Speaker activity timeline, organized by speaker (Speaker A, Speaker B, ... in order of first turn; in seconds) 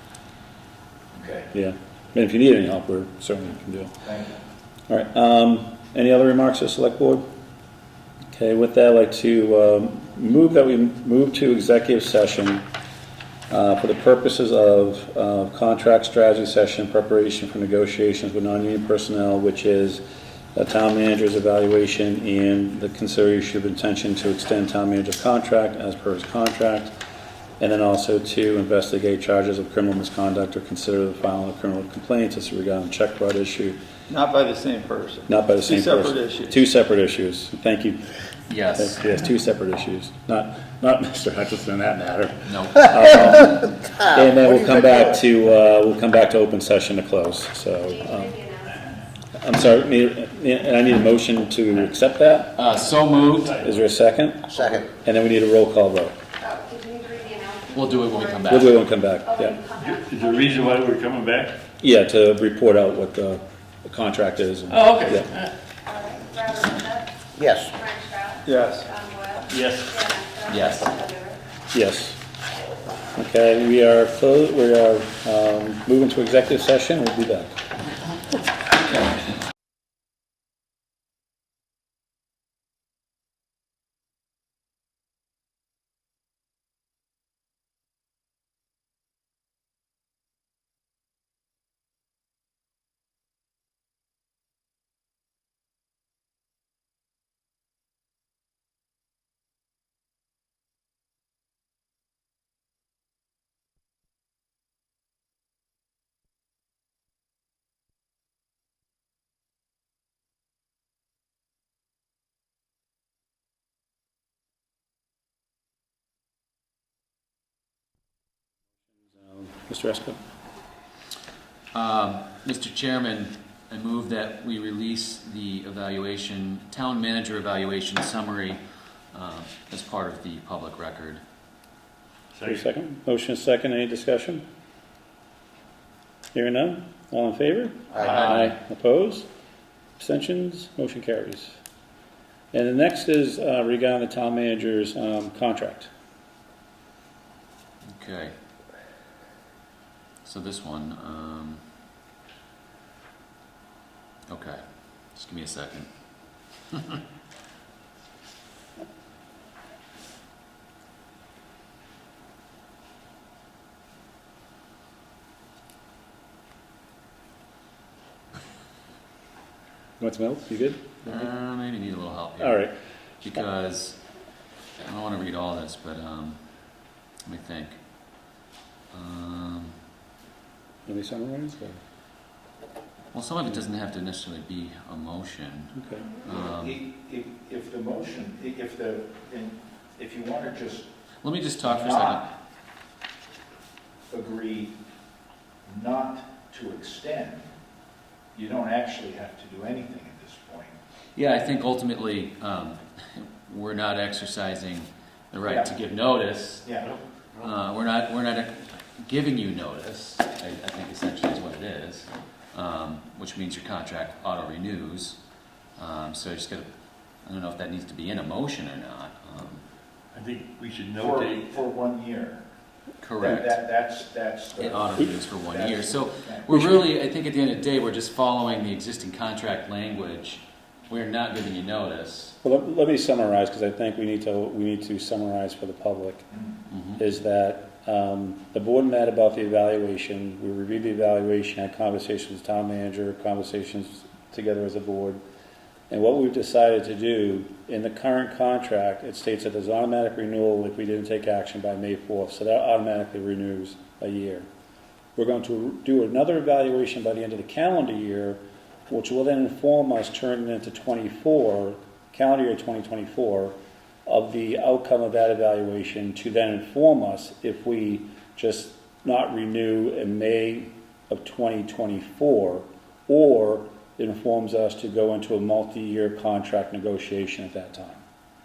Speaker A: 1.1-1.5, 4.0-4.3, 44.4-45.2, 186.3-190.8, 191.6-192.3, 194.1-194.7, 195.7-197.4, 198.3-200.7, 205.4-205.7, 206.6-206.9, 221.0-222.4, 223.2-226.6
Speaker B: 1.5-3.9, 4.9-7.2, 8.3-12.6, 13.5-20.0, 20.5-26.9, 27.6-33.8, 35.3-38.0, 38.8-48.4, 49.4-52.6, 53.6-56.1, 58.5-59.6, 61.8-65.3, 71.7-72.2, 73.2-77.5, 119.1-120.2, 132.4-134.4, 136.3-139.2, 140.0-141.6, 142.5-145.9, 170.0-171.3, 172.4-172.7, 180.8-181.8, 185.8-186.0, 226.5-226.8, 232.4-236.2, 237.0-245.2, 245.9-254.5, 255.2-278.0
Speaker C: 34.1-36.5, 54.5-54.8, 67.3-67.7, 68.5-68.8
Speaker D: 38.5-39.2, 42.5-43.0, 52.5-53.6, 57.7-58.8, 70.5-70.9, 121.7-128.6, 129.1-131.2, 137.9-138.5, 147.9-148.3, 150.2-151.6, 154.3-154.6, 155.1-155.9, 156.7-157.0, 171.1-172.7, 173.2-174.0, 174.8-176.4, 177.2-177.8, 178.9-179.7, 183.1-186.8, 191.2-192.3, 201.2-206.7, 207.4-215.2, 215.8-216.7, 217.2-219.6, 223.0-223.6, 224.6-232.3, 236.7-237.0
Speaker E: 47.9-48.7, 56.4-58.5, 59.2-60.6, 65.8-67.1, 67.7-71.4
Speaker F: 52.7-53.8, 59.8-61.5, 64.7-65.5, 69.5-70.1, 132.3-132.6, 206.9-207.5, 220.1-221.5